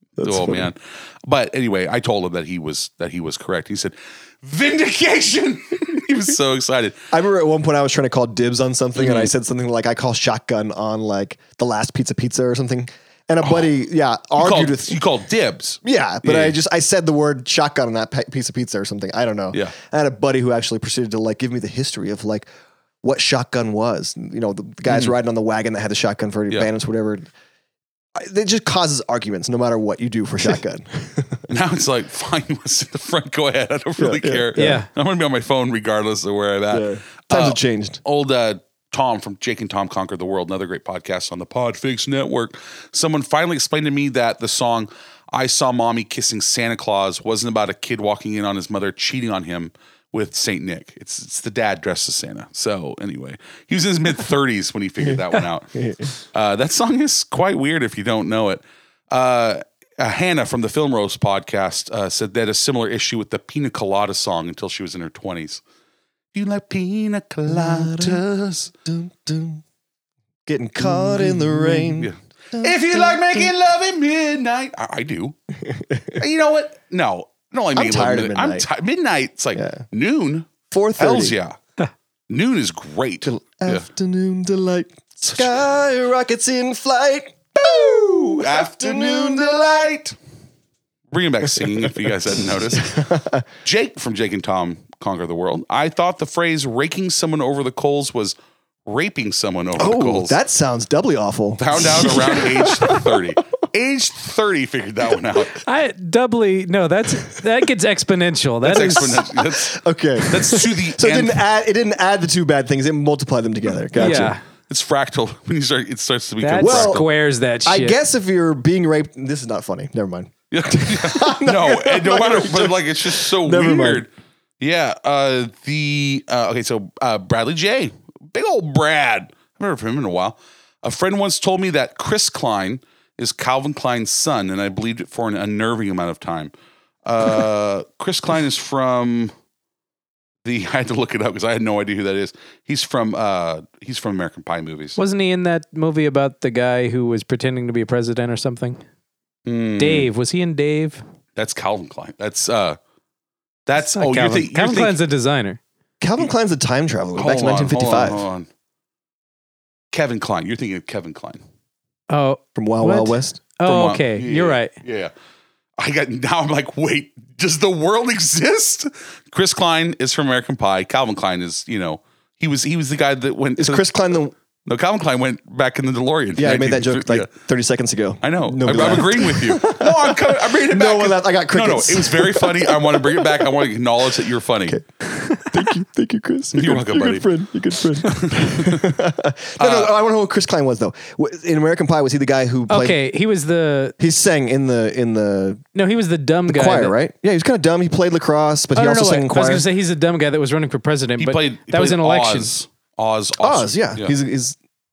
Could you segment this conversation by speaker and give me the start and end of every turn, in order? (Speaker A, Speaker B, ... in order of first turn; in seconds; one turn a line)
Speaker A: 0.2-0.7
Speaker B: 0.2-7.0
Speaker A: 7.1-15.0
Speaker B: 9.0-9.3
Speaker B: 13.4-13.7
Speaker B: 14.3-16.6
Speaker A: 15.8-22.5
Speaker A: 23.0-27.3
Speaker B: 24.9-25.1
Speaker A: 28.1-31.4
Speaker B: 31.5-55.7
Speaker A: 34.0-34.8
Speaker C: 34.6-34.9
Speaker A: 36.7-38.0
Speaker A: 55.7-56.1
Speaker B: 56.3-65.6
Speaker B: 66.3-68.7
Speaker A: 67.5-68.2
Speaker A: 68.8-69.6
Speaker A: 70.5-73.5
Speaker B: 70.8-75.3
Speaker A: 75.6-76.2
Speaker B: 76.2-81.6
Speaker A: 77.7-78.7
Speaker A: 79.5-79.8
Speaker A: 80.7-81.3
Speaker B: 82.3-83.9
Speaker A: 83.2-89.8
Speaker B: 87.8-90.2
Speaker B: 91.1-93.0
Speaker A: 92.7-93.5
Speaker B: 93.6-98.3
Speaker B: 98.8-100.4
Speaker A: 99.8-103.1
Speaker B: 101.6-105.6
Speaker C: 105.6-109.2
Speaker B: 108.6-111.4
Speaker A: 108.7-114.3
Speaker C: 114.0-114.4
Speaker B: 114.7-117.0
Speaker C: 116.4-118.0
Speaker A: 116.6-117.0
Speaker A: 117.6-124.1
Speaker B: 120.5-136.5
Speaker B: 137.0-139.3
Speaker B: 140.4-145.0
Speaker C: 145.0-148.8
Speaker B: 149.4-150.1
Speaker C: 149.8-151.0
Speaker B: 151.3-152.8
Speaker B: 153.7-155.0
Speaker C: 153.8-155.6
Speaker A: 156.0-158.2
Speaker B: 157.2-158.5
Speaker B: 159.9-161.4
Speaker C: 162.1-164.7
Speaker A: 162.6-163.4
Speaker B: 163.6-165.1
Speaker B: 165.8-173.9
Speaker A: 173.6-174.3
Speaker B: 174.6-177.3
Speaker A: 176.3-183.6
Speaker B: 178.2-184.8
Speaker A: 185.5-193.0
Speaker B: 186.5-187.3
Speaker B: 188.0-188.9
Speaker B: 189.6-189.9
Speaker C: 192.7-193.9
Speaker A: 194.0-195.6
Speaker C: 195.7-196.9
Speaker A: 196.5-199.7
Speaker C: 198.7-202.5
Speaker B: 201.2-204.2
Speaker A: 203.4-204.6